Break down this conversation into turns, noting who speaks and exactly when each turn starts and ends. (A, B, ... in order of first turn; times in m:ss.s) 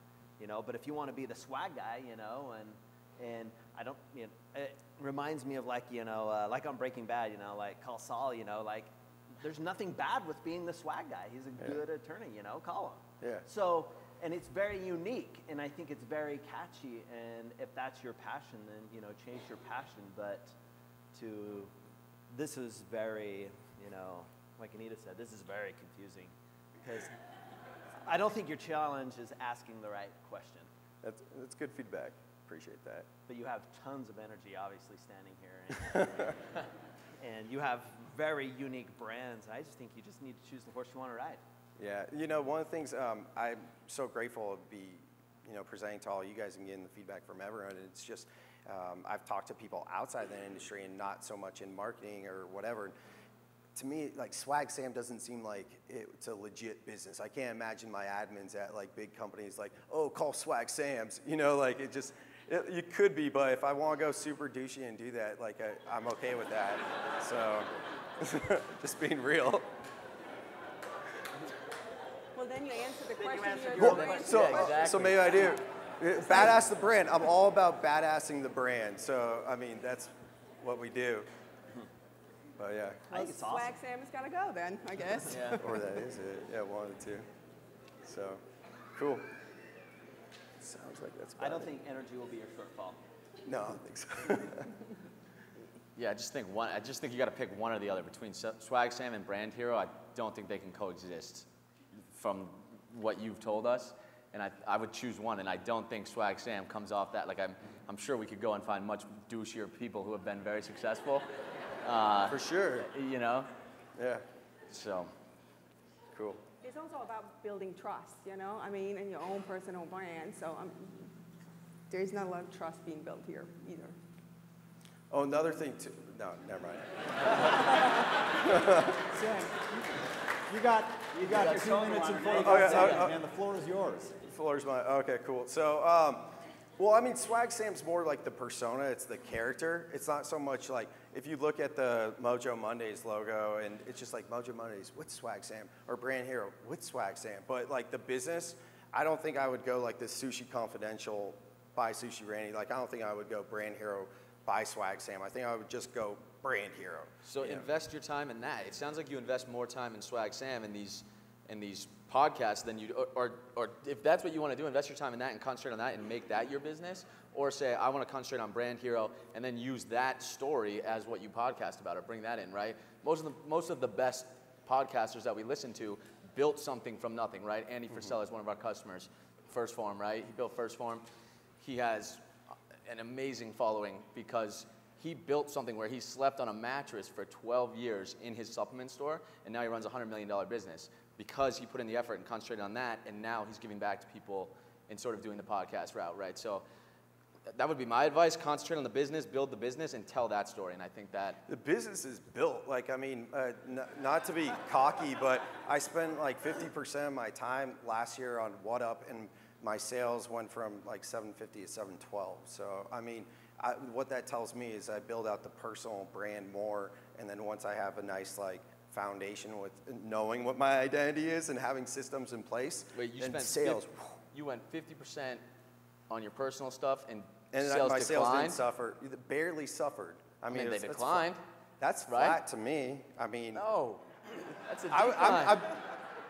0:00.4-0:20.5 A
0:21.1-0:21.7 A
0:22.3-0:27.1 A
0:28.0-0:30.7 A
0:31.0-0:33.1 B
0:33.3-0:36.4 A
0:37.2-0:41.4 A
0:41.8-0:52.9 B
0:53.7-1:09.7 B
1:12.3-1:14.8 C
1:13.2-1:15.3 A
1:13.8-1:15.5 D
1:13.8-1:21.3 B
1:22.6-1:23.2 B
1:23.1-1:23.7 A
1:23.2-1:25.6 C
1:25.6-1:27.2 B
1:28.0-1:28.4 B
1:28.9-1:29.3 B
1:30.6-1:31.7 B
1:31.4-1:33.0 A
1:33.4-1:34.7 B
1:36.0-1:41.5 D
1:42.1-1:51.2 D
1:51.8-1:53.5 D
1:52.3-1:52.9 B
1:54.0-1:54.2 B
1:54.7-1:55.1 D
1:56.1-1:56.4 B
1:56.6-2:01.1 C
2:01.9-2:04.0 C
2:05.1-2:09.0 B
2:09.1-2:09.7 E
2:10.5-2:14.1 E
2:11.2-2:13.0 A
2:12.4-2:13.2 B
2:14.2-2:37.7 B
2:37.3-3:01.0 D
3:01.6-3:02.2 D
3:02.8-3:16.6 D
3:17.5-3:21.4 D
3:21.5-3:44.2 B
3:42.9-3:45.4 D
3:46.1-3:48.6 D
3:47.5-3:51.3 B
3:50.5-3:51.4 D
3:51.8-3:53.6 B
3:52.1-3:52.4 D
3:53.5-3:54.0 D
3:54.6-3:55.6 D
3:54.9-3:56.0 B